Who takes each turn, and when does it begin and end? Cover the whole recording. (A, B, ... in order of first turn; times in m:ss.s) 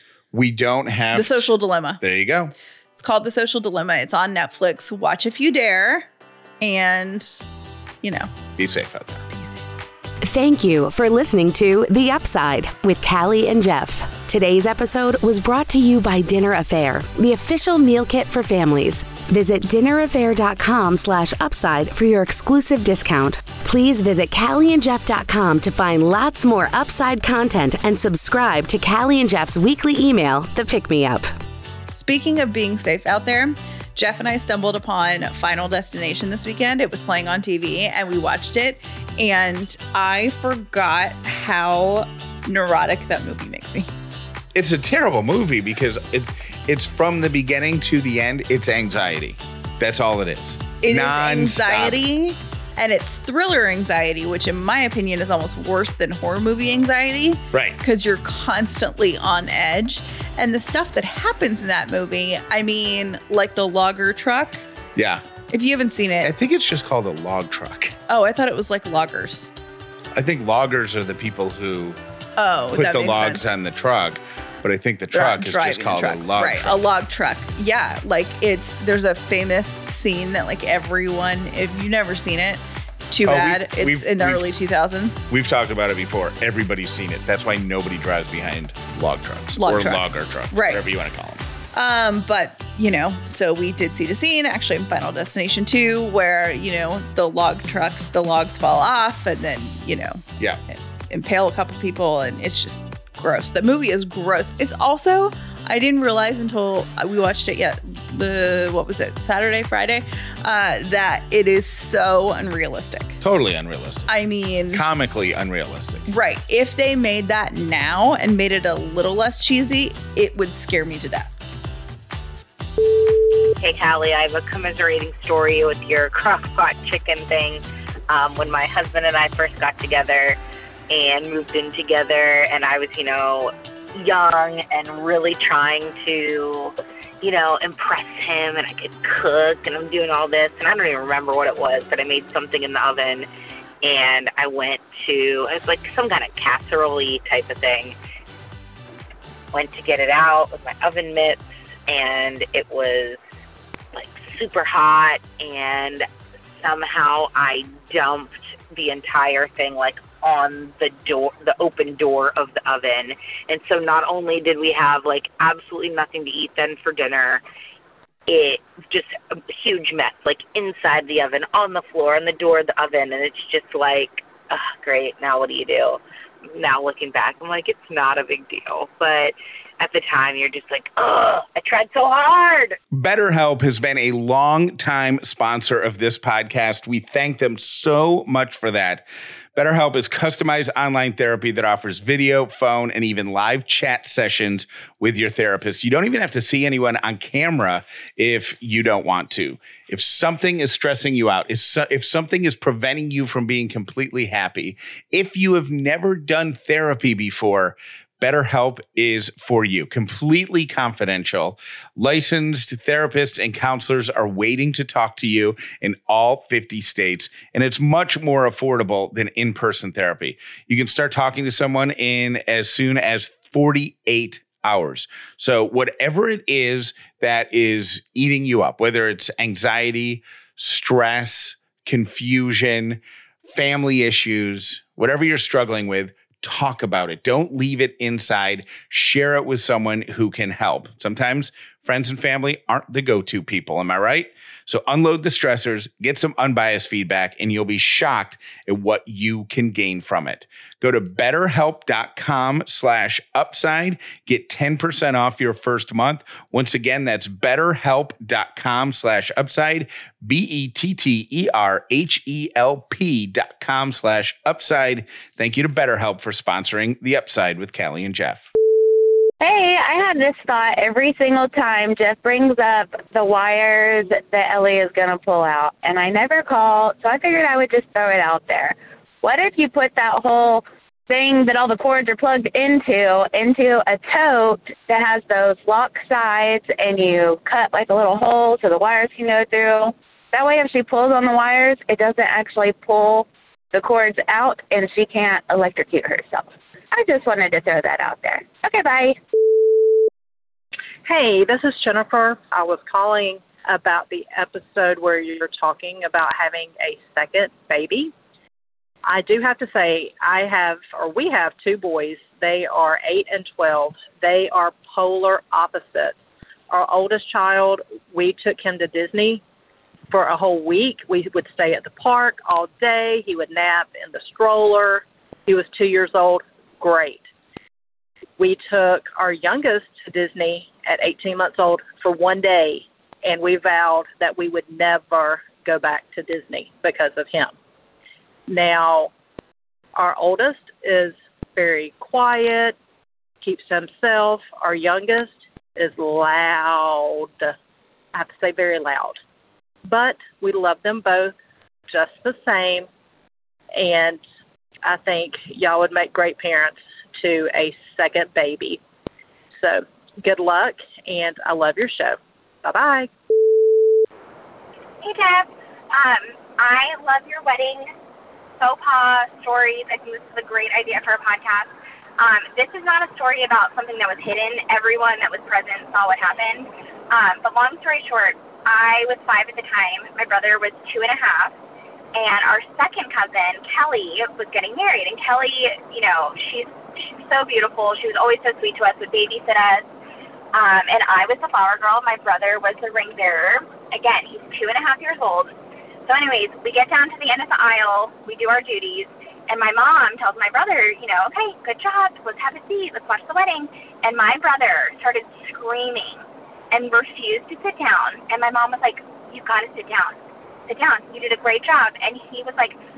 0:00.3-0:02.5 A
0:01.1-0:02.0 B
0:02.9-0:06.1 B
0:06.6-0:07.4 B
0:08.0-0:08.3 B
0:08.6-0:09.3 A
0:09.3-0:09.6 B
0:10.2-0:31.3 C
0:31.9-0:43.9 B
0:44.5-0:52.0 A
0:50.8-1:04.6 B
0:57.5-0:57.8 A
1:04.9-1:05.2 A
1:05.5-1:06.3 B
1:06.2-1:08.0 A
1:08.1-1:09.5 B
1:10.1-1:12.0 A
1:12.4-1:13.5 B
1:12.7-1:16.9 A
1:15.1-1:25.2 B
1:23.2-1:24.4 A
1:25.3-1:31.4 A
1:29.6-1:30.8 B
1:31.7-1:53.2 B
1:53.2-1:54.1 A
1:54.1-1:54.8 B
1:54.7-1:56.1 A
1:56.1-2:01.3 B
2:03.6-2:10.4 D
2:10.9-2:23.3 D
2:23.8-2:28.0 D
2:29.5-2:33.2 D
2:33.9-2:47.4 D
2:48.3-3:02.8 D
3:02.9-4:28.5 A
4:29.4-4:59.2 E
5:01.0-5:08.1 F
5:09.0-5:19.4 F
5:20.1-5:27.3 F
5:28.4-5:37.5 F
5:38.5-5:39.1 F
5:39.9-5:42.8 F
5:43.4-5:47.5 F
5:48.1-5:49.2 F
5:49.8-5:51.3 F
5:51.9-5:52.9 F
5:53.7-5:54.2 F
5:54.8-5:58.8 F
5:59.5-6:03.1 F
6:05.0-6:07.9 G
6:08.6-6:21.6 G
6:22.1-6:29.9 G
6:30.5-6:35.5 G
6:36.0-6:52.8 G